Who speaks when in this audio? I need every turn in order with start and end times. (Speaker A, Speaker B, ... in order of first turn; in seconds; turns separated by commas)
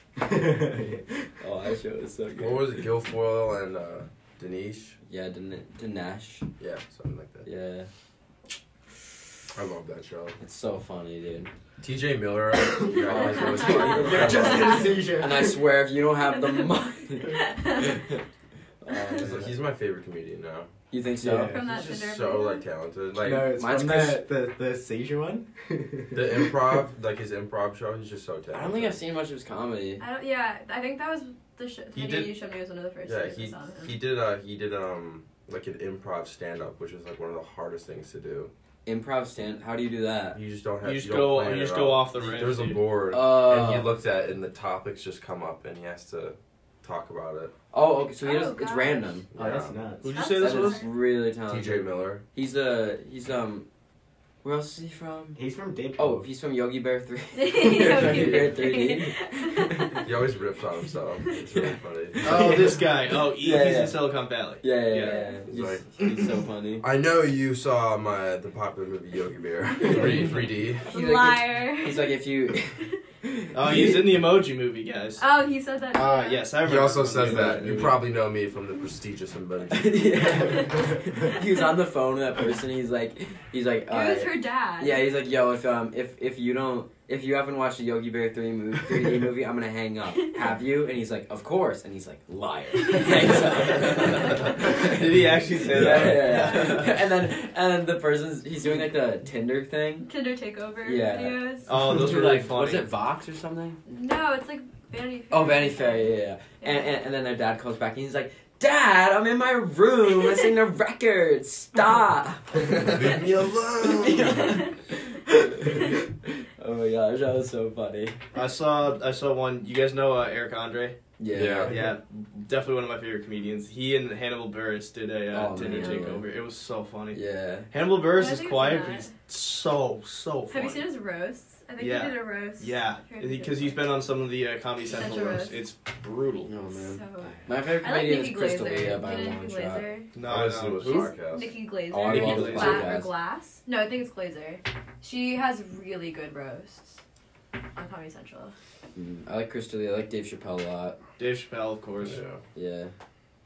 Speaker A: 0.2-1.3, Speaker B: 1.4-2.7, Speaker C: 2.4-5.0, Speaker B: 5.0-6.5, Speaker C: 6.6-7.5, Speaker B: 7.4-7.9, Speaker C: 9.5-10.4, Speaker B: 10.4-11.5, Speaker C: 11.8-15.0, Speaker D: 13.0-14.9, Speaker B: 13.0-18.2, Speaker A: 13.9-15.6, Speaker D: 16.3-16.7, Speaker D: 17.2-18.0, Speaker B: 18.8-19.5, Speaker C: 19.2-20.7, Speaker B: 20.9-21.6, Speaker A: 21.2-21.9, Speaker D: 21.5-22.6, Speaker C: 21.7-23.5, Speaker A: 23.2-26.7, Speaker B: 23.5-24.3, Speaker C: 26.1-29.0, Speaker B: 28.5-30.0, Speaker D: 30.0-34.0, Speaker C: 31.9-32.3, Speaker C: 33.0-38.5, Speaker B: 38.8-40.4, Speaker C: 40.3-47.5, Speaker E: 40.8-42.8, Speaker B: 43.1-43.9, Speaker B: 47.7-49.3, Speaker D: 48.2-49.2, Speaker C: 49.3-49.8, Speaker A: 49.3-50.1, Speaker E: 50.0-50.9, Speaker D: 50.1-50.9, Speaker B: 50.4-53.6, Speaker C: 51.5-52.2, Speaker B: 54.4-55.4, Speaker A: 55.3-56.3, Speaker B: 56.0-60.0, Speaker D: 57.3-60.1, Speaker C: 58.0-58.5, Speaker C: 60.0-62.5, Speaker B: 61.5-64.0, Speaker E: 62.2-65.2, Speaker B: 64.6-66.8, Speaker D: 64.9-65.4, Speaker C: 65.5-65.9, Speaker C: 66.8-70.9, Speaker B: 69.8-74.1, Speaker D: 69.9-70.2, Speaker D: 70.9-73.0, Speaker E: 73.5-75.2, Speaker D: 75.2-76.6, Speaker E: 75.9-78.0, Speaker C: 76.6-80.4, Speaker B: 79.7-100.1, Speaker D: 80.3-81.6, Speaker D: 83.9-85.1, Speaker D: 90.2-90.5, Speaker D: 92.9-94.9, Speaker E: 94.4-96.9, Speaker C: 95.7-96.2, Speaker D: 96.3-96.8, Speaker D: 100.0-101.8, Speaker B: 100.8-103.8, Speaker E: 101.7-102.9, Speaker D: 103.8-106.9, Speaker B: 105.3-113.2, Speaker C: 112.7-114.5, Speaker B: 113.8-118.2, Speaker D: 114.3-114.7, Speaker E: 118.3-121.0, Speaker B: 121.2-121.9, Speaker C: 121.3-121.8, Speaker E: 121.7-130.8, Speaker B: 125.3-126.2, Speaker D: 125.6-126.2, Speaker B: 127.1-127.7, Speaker D: 128.0-129.1, Speaker D: 130.5-133.8, Speaker E: 131.8-136.5, Speaker D: 134.9-135.6, Speaker B: 136.5-139.9, Speaker D: 136.7-140.2, Speaker E: 140.1-141.1, Speaker C: 140.2-141.6, Speaker D: 140.8-147.0, Speaker B: 141.9-143.1, Speaker E: 142.0-142.9, Speaker D: 147.7-148.5, Speaker B: 148.9-151.0, Speaker E: 151.2-152.2, Speaker C: 152.0-152.4, Speaker B: 152.5-152.9